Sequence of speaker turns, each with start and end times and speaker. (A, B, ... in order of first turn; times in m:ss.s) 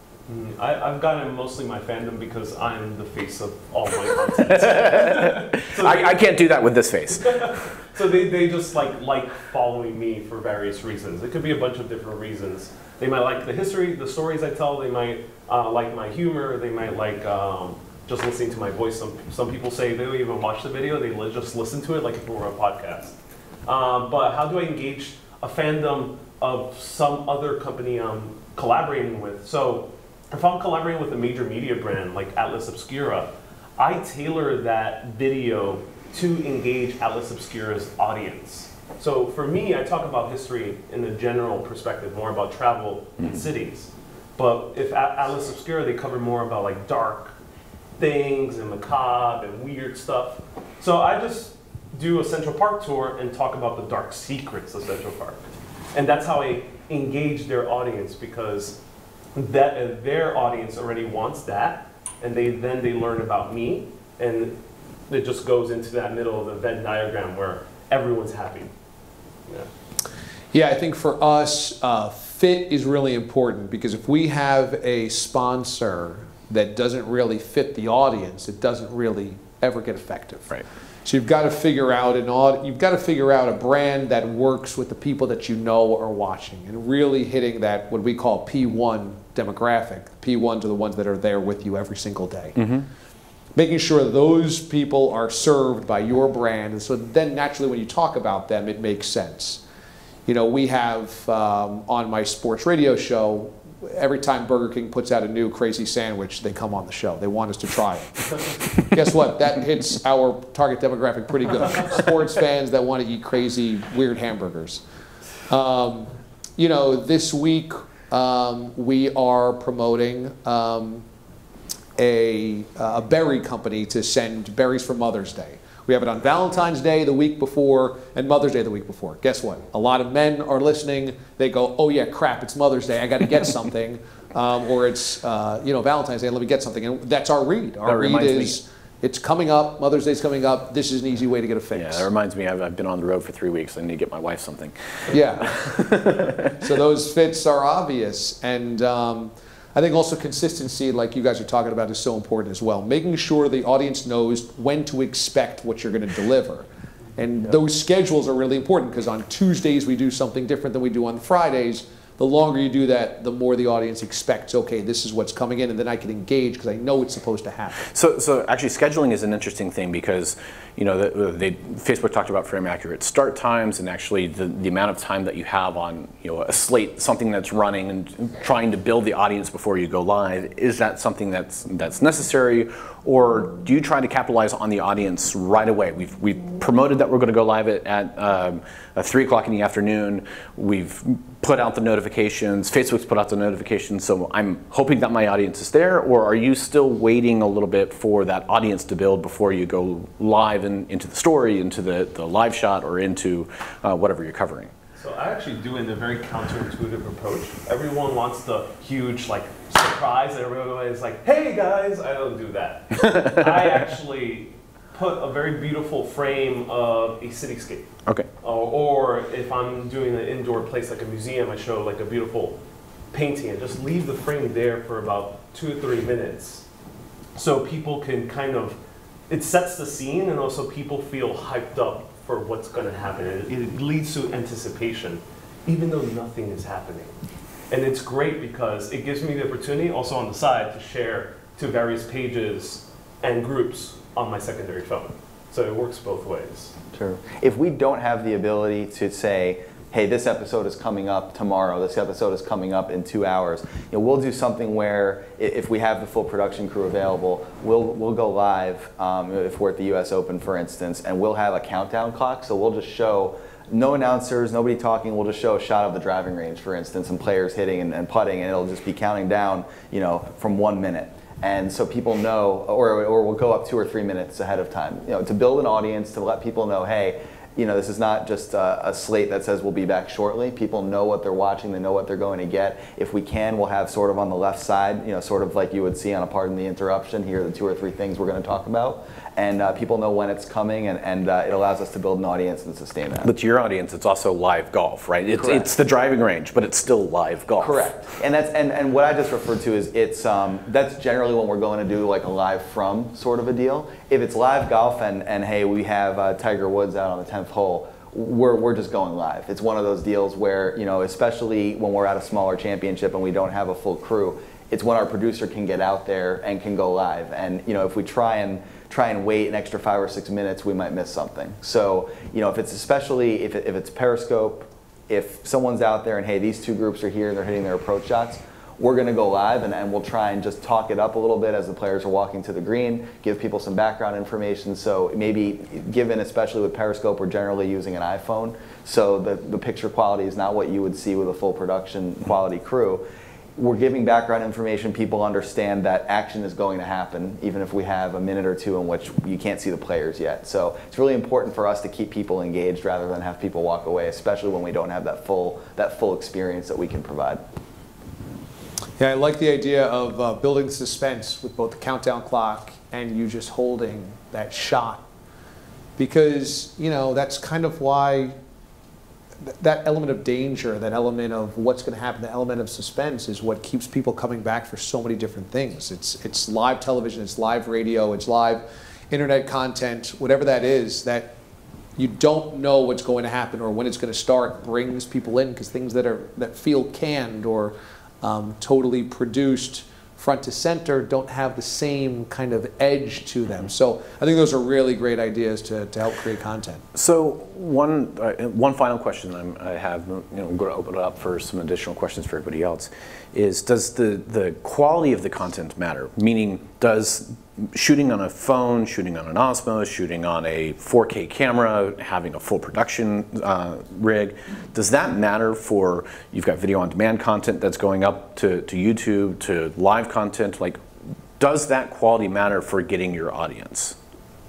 0:00.3-0:06.3 A
0:04.4-0:07.7 B
0:07.1-0:47.3 A
0:48.0-0:58.8 A
0:59.4-1:04.6 A
1:05.1-1:08.7 A
1:10.5-1:32.6 C
1:32.6-1:32.9 B
1:33.6-1:39.6 C
1:40.3-1:54.8 C
1:55.5-2:01.0 C
2:02.0-2:22.1 C
2:17.8-2:18.6 B
2:21.7-2:26.6 B
2:25.1-2:47.9 C
2:47.9-3:24.7 B
3:25.0-3:37.9 A
3:33.0-3:33.7 B
3:38.4-3:42.6 A
3:43.1-3:46.6 A
3:47.4-3:48.8 A
3:49.3-3:57.2 A
3:57.7-4:06.8 A
4:06.9-4:53.3 D
4:53.2-4:57.9 B
4:55.4-4:55.7 D
4:57.6-5:43.0 D
5:43.6-5:57.4 D
5:59.0-6:05.0 C
6:06.0-6:08.4 C
6:09.4-6:21.3 C
6:22.0-6:36.8 C
6:36.9-7:00.8 B
7:01.4-7:04.0 B